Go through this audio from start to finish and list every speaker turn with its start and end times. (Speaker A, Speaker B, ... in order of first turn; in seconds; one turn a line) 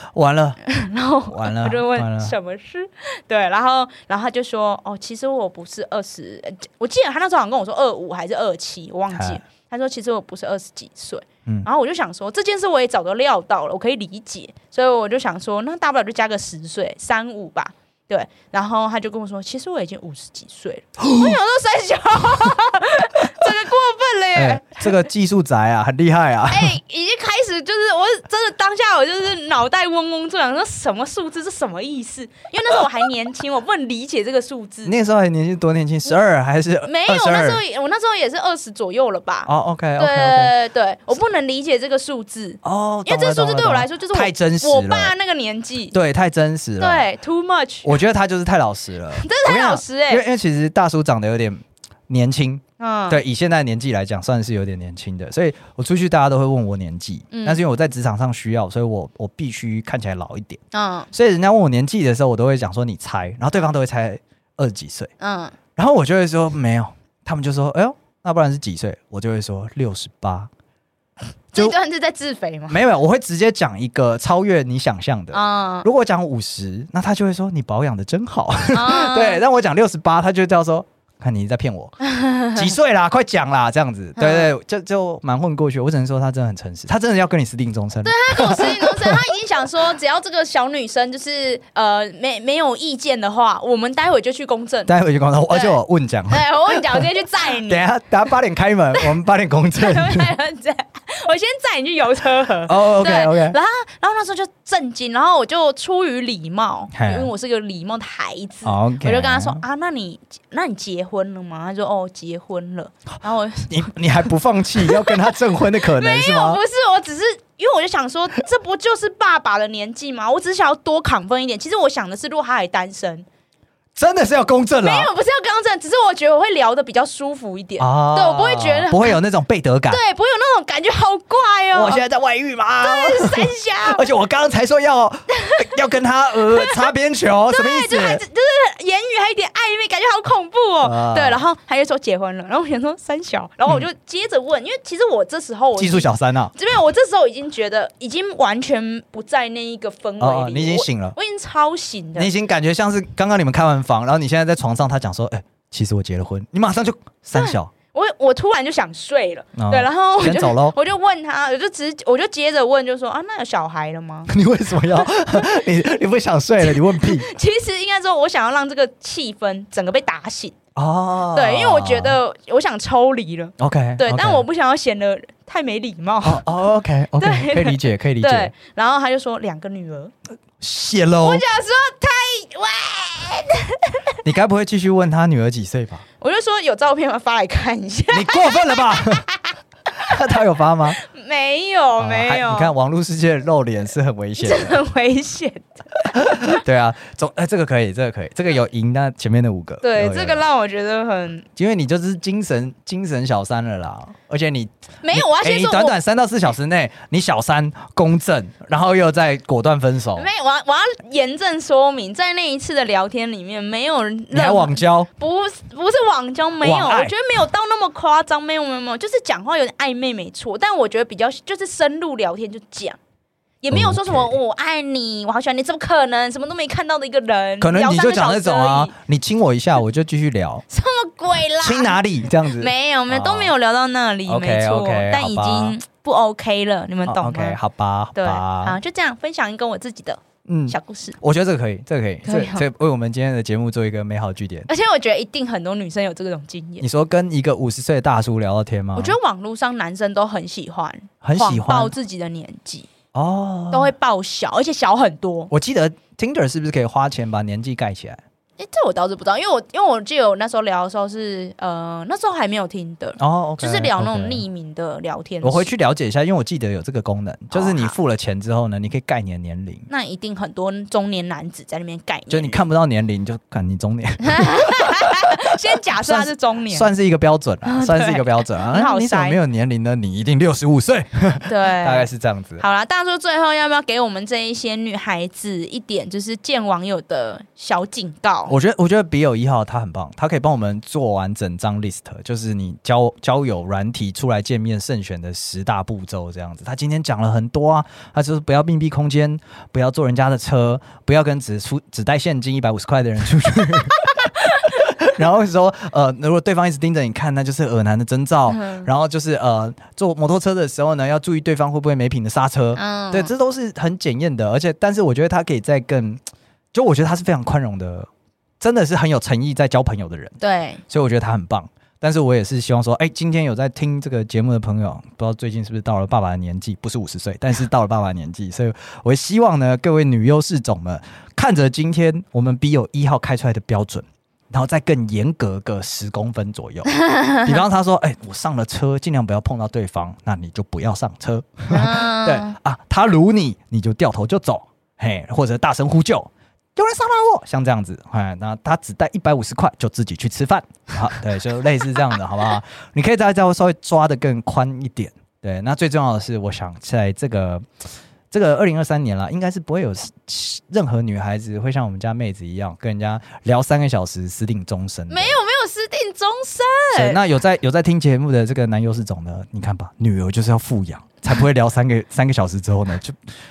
Speaker A: 0.1-0.6
Speaker B: 0.7-24.9
Speaker A: 1.2-2.4
Speaker A: 9.1-9.4
Speaker A: 21.0-21.4
Speaker A: 24.4-26.8
Speaker B: 26.5-34.9
Speaker A: 34.9-37.6
Speaker B: 36.9-46.0
Speaker A: 39.5-40.5
Speaker A: 42.6-45.1
Speaker A: 45.9-47.1
Speaker B: 46.8-48.0
Speaker A: 47.8-60.6
Speaker B: 49.2-50.2
Speaker B: 52.8-53.2
Speaker B: 57.3-57.6
Speaker B: 60.7-61.1
Speaker A: 61.1-65.1
Speaker B: 65.2-65.6
Speaker A: 65.8-70.5
Speaker B: 71.5-72.8
Speaker A: 72.7-82.0
Speaker B: 75.3-75.9
Speaker B: 78.7-79.4
Speaker B: 82.0-82.7
Speaker A: 82.5-89.3
Speaker B: 84.2-84.5
Speaker B: 88.0-94.9
Speaker A: 94.9-97.1
Speaker B: 95.5-95.8
Speaker B: 96.3-97.9
Speaker A: 97.7-100.3
Speaker B: 99.8-113.8
Speaker A: 102.7-103.6
Speaker A: 106.9-107.3
Speaker A: 108.7-109.6
Speaker A: 113.7-116.6
Speaker B: 114.8-123.3
Speaker A: 124.0-125.1
Speaker B: 124.8-129.2
Speaker A: 127.8-130.0
Speaker B: 129.9-132.0
Speaker A: 131.7-138.2
Speaker B: 132.8-134.1
Speaker B: 135.4-135.7
Speaker B: 136.5-136.9
Speaker B: 137.5-152.3
Speaker A: 140.8-141.4
Speaker A: 145.8-146.5
Speaker A: 150.2-151.2
Speaker A: 152.2-157.7
Speaker B: 157.3-164.3
Speaker A: 159.6-160.8
Speaker A: 164.3-167.3
Speaker B: 166.6-170.6
Speaker A: 170.8-172.2
Speaker B: 171.3-176.4
Speaker A: 173.6-174.4
Speaker A: 176.2-178.5
Speaker B: 177.2-180.1
Speaker A: 180.6-181.4
Speaker B: 181.2-184.1
Speaker A: 184.2-186.0
Speaker B: 186.2-190.2
Speaker A: 188.1-189.2
Speaker A: 190.0-191.0
Speaker B: 191.0-192.7
Speaker A: 192.0-194.8
Speaker B: 194.4-196.6
Speaker A: 196.2-200.4
Speaker B: 199.8-201.4
Speaker A: 201.6-210.3
Speaker B: 205.0-206.0
Speaker B: 210.2-223.0
Speaker A: 214.3-215.1
Speaker A: 216.6-217.1
Speaker B: 223.6-228.9
Speaker A: 223.7-224.4
Speaker A: 227.6-230.7
Speaker B: 230.7-237.6
Speaker A: 231.6-233.5
Speaker A: 234.3-235.8
Speaker A: 237.1-238.8
Speaker B: 238.2-241.2
Speaker A: 240.5-244.7
Speaker B: 242.2-242.7
Speaker B: 244.7-246.9
Speaker A: 246.8-249.2
Speaker B: 249.0-252.9
Speaker A: 251.2-251.9
Speaker A: 253.1-253.9
Speaker B: 253.7-255.5
Speaker A: 255.5-258.2
Speaker B: 258.6-265.7
Speaker A: 263.2-264.4
Speaker A: 265.4-269.9
Speaker B: 267.5-267.9
Speaker B: 269.9-272.6
Speaker A: 272.3-282.6
Speaker B: 274.2-276.9
Speaker B: 277.6-279.4
Speaker B: 281.5-288.5
Speaker A: 288.5-316.2
Speaker B: 304.1-304.6
Speaker B: 308.5-308.9
Speaker B: 312.8-313.3
Speaker A: 316.7-318.1
Speaker A: 318.6-320.4
Speaker B: 320.4-320.8
Speaker A: 320.9-357.7
Speaker B: 336.9-337.5
Speaker B: 341.7-342.6
Speaker A: 358.3-365.4
Speaker B: 365.1-367.2
Speaker A: 366.9-373.2